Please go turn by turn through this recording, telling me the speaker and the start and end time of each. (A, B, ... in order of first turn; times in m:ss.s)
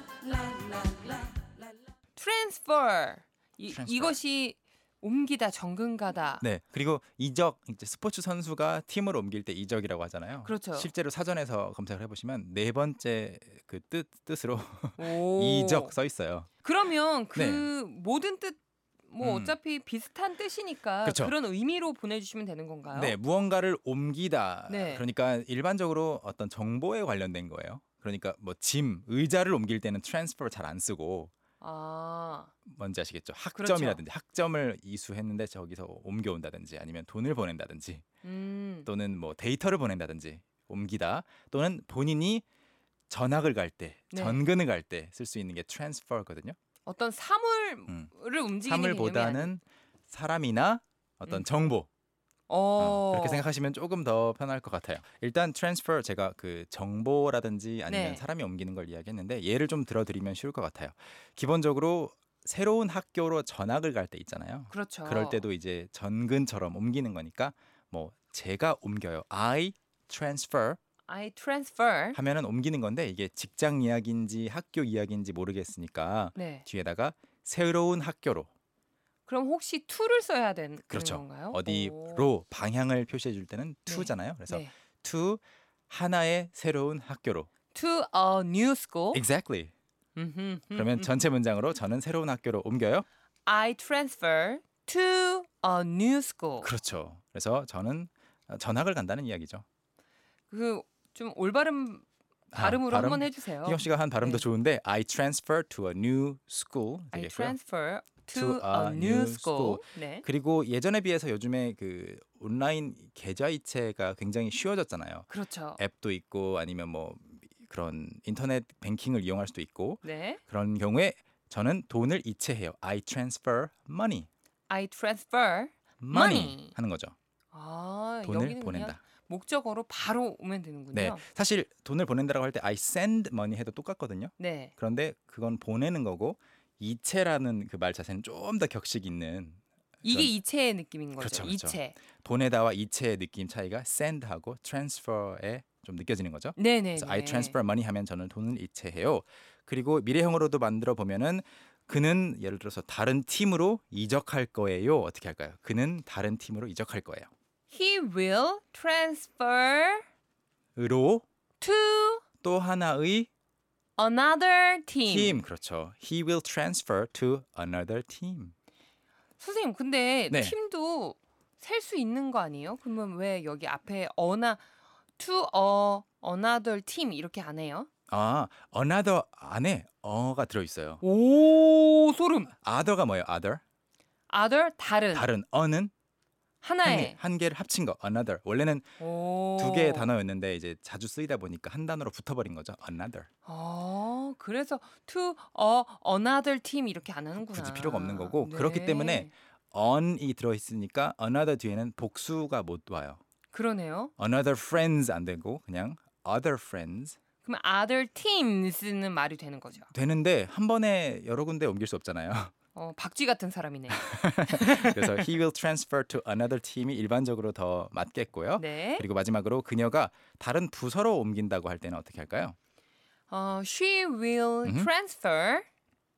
0:02.2-0:06.4 A
0:03.7-0:04.2 B
0:06.4-0:16.5 B
0:10.4-0:10.9 A
0:15.0-0:15.9 A
0:16.6-0:23.2 A
0:17.3-0:17.7 B
0:19.2-0:19.6 B
0:21.0-0:21.3 B
0:22.9-0:31.3 B
0:24.7-0:25.0 A
0:31.6-0:32.5 A
0:32.6-0:38.0 B
0:33.5-0:34.0 A
0:38.2-0:38.9 A
0:38.8-0:42.4 B
0:43.1-0:46.5 B
0:44.1-0:44.4 A
0:46.8-0:49.5 A
0:48.6-0:51.9 B
0:52.5-0:53.4 A
0:52.8-1:10.8 B
0:57.9-0:58.2 A
1:04.7-1:05.4 A
1:11.1-1:12.2 A
1:12.1-1:18.5 B
1:16.4-1:16.6 A
1:19.3-1:22.2 A
1:20.9-1:27.5 B
1:23.9-1:24.7 A
1:27.7-1:29.2 A
1:29.1-1:29.7 B
1:30.2-1:31.1 A
1:30.7-1:33.0 B
1:33.4-1:36.7 A
1:36.6-1:39.6 B
1:40.5-1:44.4 A
1:42.5-1:47.6 B
1:47.1-1:50.2 A
1:48.3-2:04.3 B
1:55.3-1:55.8 A
2:00.0-2:00.4 A
2:04.7-2:06.7 A
2:06.0-2:07.1 B
2:07.5-2:11.2 A
2:08.2-2:09.0 B
2:10.9-2:20.3 B
2:14.4-2:14.7 A
2:20.0-2:22.0 A
2:21.2-2:37.3 B
2:26.6-2:27.6 A
2:37.7-2:40.0 A
2:40.8-2:41.2 B
2:41.6-2:42.2 A
2:42.4-2:43.3 B
2:44.0-2:45.4 A
2:45.1-2:48.5 B
2:49.4-2:54.6 A
2:50.3-2:50.6 B
2:55.2-2:57.9 A
2:58.1-3:01.0 B
3:01.0-3:02.5 A
3:02.6-3:03.6 B
3:04.3-3:05.3 A
3:05.1-3:05.9 B
3:06.6-3:07.2 A
3:06.8-3:08.9 B
3:09.0-3:10.1 A
3:09.6-3:13.3 B
3:13.4-3:19.3 A
3:17.4-3:23.2 B
3:23.5-3:24.1 A
3:24.2-3:27.2 B
3:27.4-3:29.9 A
3:29.9-3:32.5 B
3:32.7-3:35.3 A
3:33.9-3:42.6 B
3:38.6-3:39.0 A
3:43.3-3:45.6 A
3:44.6-3:44.9 B